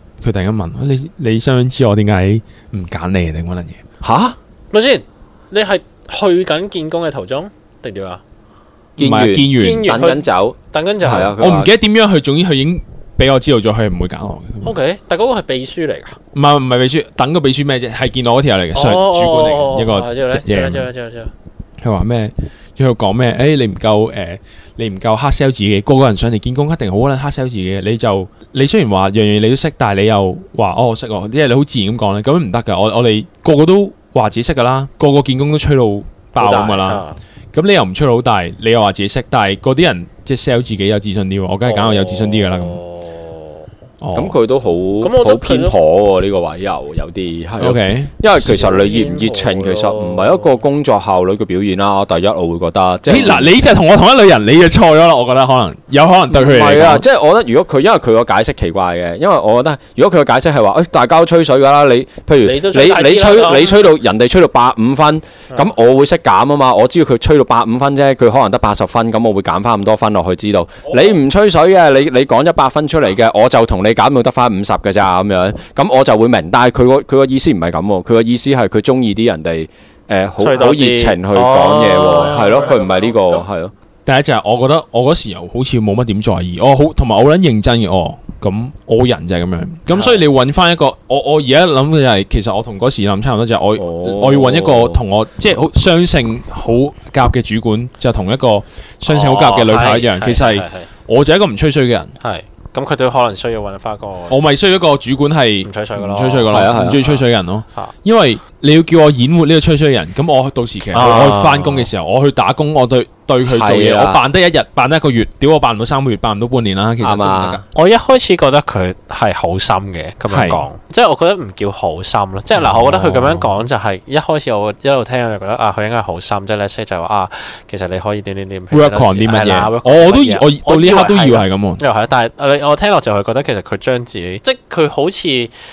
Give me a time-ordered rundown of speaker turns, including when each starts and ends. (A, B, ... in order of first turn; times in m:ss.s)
0:00.2-0:03.8 A
0:04.0-0:04.4 B
0:04.7-0:08.2 C
0:09.0-0:11.7 B
0:09.0-0:09.9 A
0:09.5-0:11.4 C
0:11.0-0:14.8 A
0:14.6-0:16.2 C
0:16.4-0:20.9 A
0:18.7-0:21.3 C
0:21.8-0:42.8 A
0:36.4-0:37.2 C
0:41.6-0:43.7 C
0:44.0-0:44.4 A
0:44.1-0:53.6 B
0:45.0-0:45.8 C
0:47.6-0:48.1 A
0:48.4-0:50.6 C
0:53.1-0:57.0 A
0:56.3-1:23.7 B
1:02.4-1:04.0 C
1:20.4-1:23.4 C
1:24.1-1:42.2 A
1:29.9-1:30.2 C
1:33.8-1:35.0 B
1:39.1-1:40.9 C
1:42.2-1:44.4 C
1:44.3-1:57.6 A
1:45.6-1:47.2 C
1:46.5-1:47.2 B
1:50.9-1:51.9 C
1:53.5-1:54.2 B
1:57.0-1:57.6 B
1:57.7-2:15.5 C
2:00.3-2:00.6 A
2:02.6-2:03.5 A
2:08.7-2:11.8 A